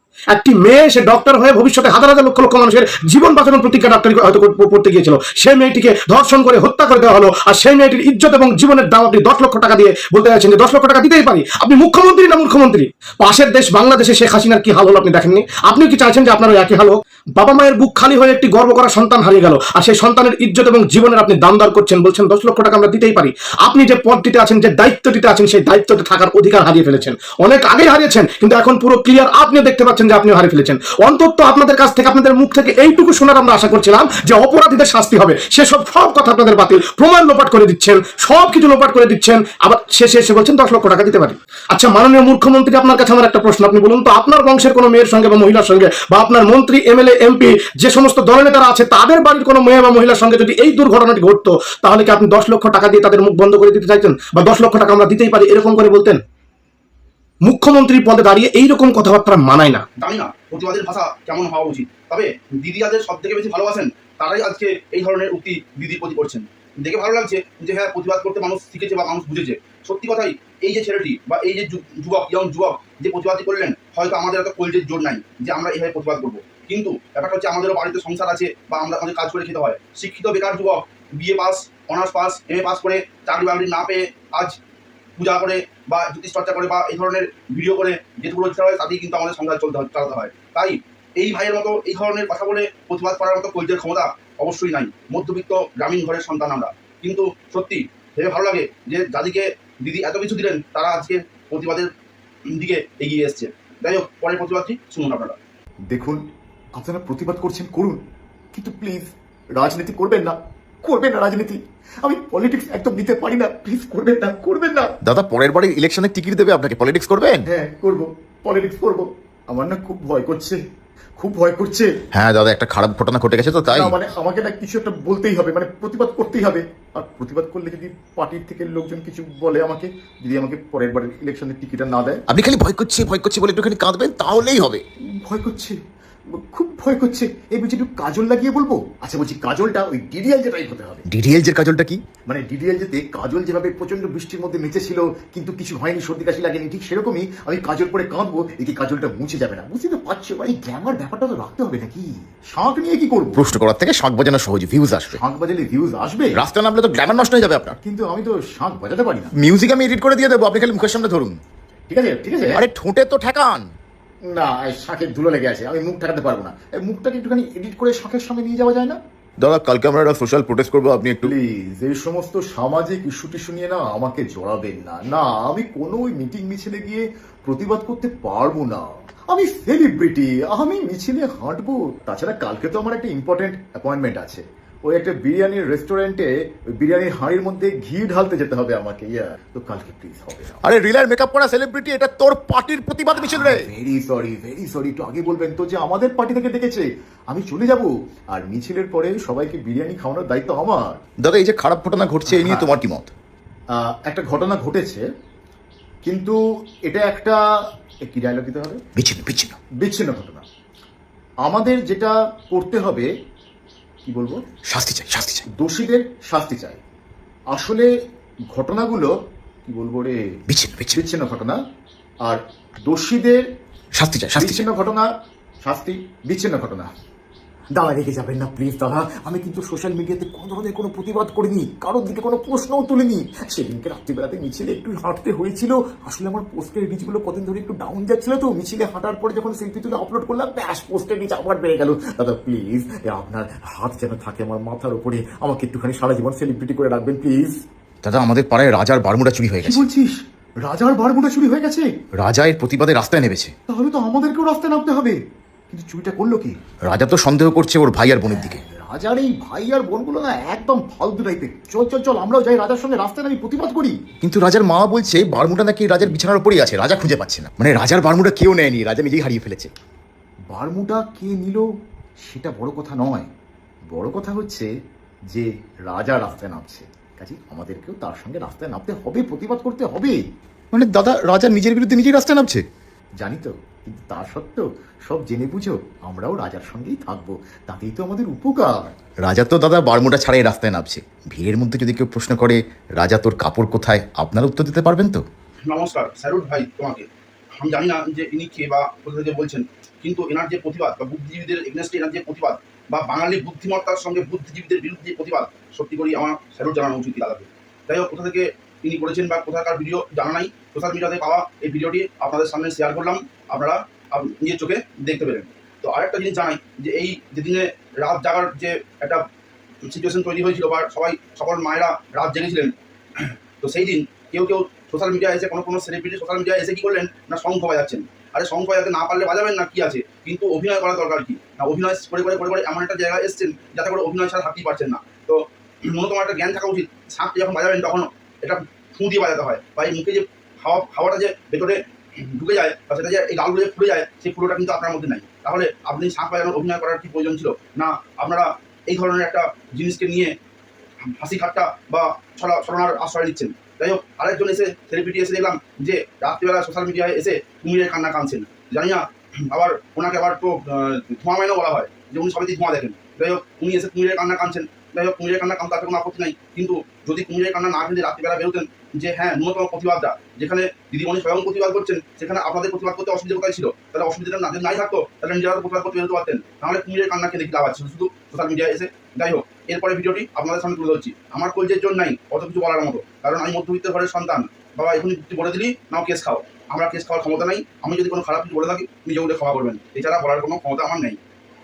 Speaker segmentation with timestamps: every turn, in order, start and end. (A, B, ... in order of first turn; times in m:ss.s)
0:00.3-0:56.2 A
0:57.4-0:59.8 A
1:00.0-1:24.6 B
1:25.2-1:41.9 B
1:42.5-1:45.4 B
1:45.9-1:46.2 C
1:46.8-1:48.0 C
1:48.5-1:55.0 C
1:55.0-1:57.4 D
1:57.5-2:00.6 C
2:01.2-2:01.9 C
2:02.2-2:03.9 D
2:03.7-2:12.2 C
2:12.3-2:14.8 D
2:15.2-2:15.8 C
2:16.5-2:21.1 C
2:21.1-2:22.0 D
2:22.2-2:33.5 C
2:33.4-2:35.2 D
2:35.1-2:36.4 C
2:36.4-2:37.8 D
2:37.8-2:39.4 C
2:39.4-2:41.3 D
2:41.9-2:42.6 C
2:42.5-2:43.6 D
2:44.3-2:49.0 C
2:49.4-2:51.3 D
2:51.2-3:06.3 C
3:06.8-3:10.6 C
3:10.7-3:13.7 D
3:13.2-3:20.8 C
3:21.2-3:23.1 D
3:22.3-3:22.8 C
3:23.8-3:25.0 C
3:26.0-3:26.4 C
3:26.9-3:27.4 C
3:28.1-3:28.9 C
3:29.0-3:29.6 D
3:29.8-3:30.4 C
3:31.5-3:33.1 C
3:34.1-3:34.4 C
3:34.7-3:35.4 D
3:35.5-3:36.8 C
3:37.5-3:37.9 C
3:38.5-3:39.1 C
3:39.7-3:40.1 C
3:40.5-3:41.0 D
3:40.9-3:41.6 C
3:42.3-3:43.4 C
3:44.0-3:44.7 D
3:44.4-3:45.0 C
3:45.6-3:46.9 C
3:47.8-4:07.6 C
4:08.0-4:09.8 D
4:09.6-4:10.1 C
4:10.6-4:12.1 C
4:12.2-4:13.5 D
4:13.7-4:15.2 C
4:15.7-4:16.5 C
4:16.9-4:18.5 D
4:18.2-4:29.7 C
4:30.5-4:31.6 C
4:32.3-4:33.3 C
4:33.9-4:34.7 C
4:35.3-4:40.2 C
4:40.7-4:42.4 C
4:43.2-4:48.8 C
4:49.3-4:55.2 D
4:55.7-4:57.1 B
4:57.6-5:19.2 B
5:19.9-5:50.3 B
5:51.2-6:31.2 B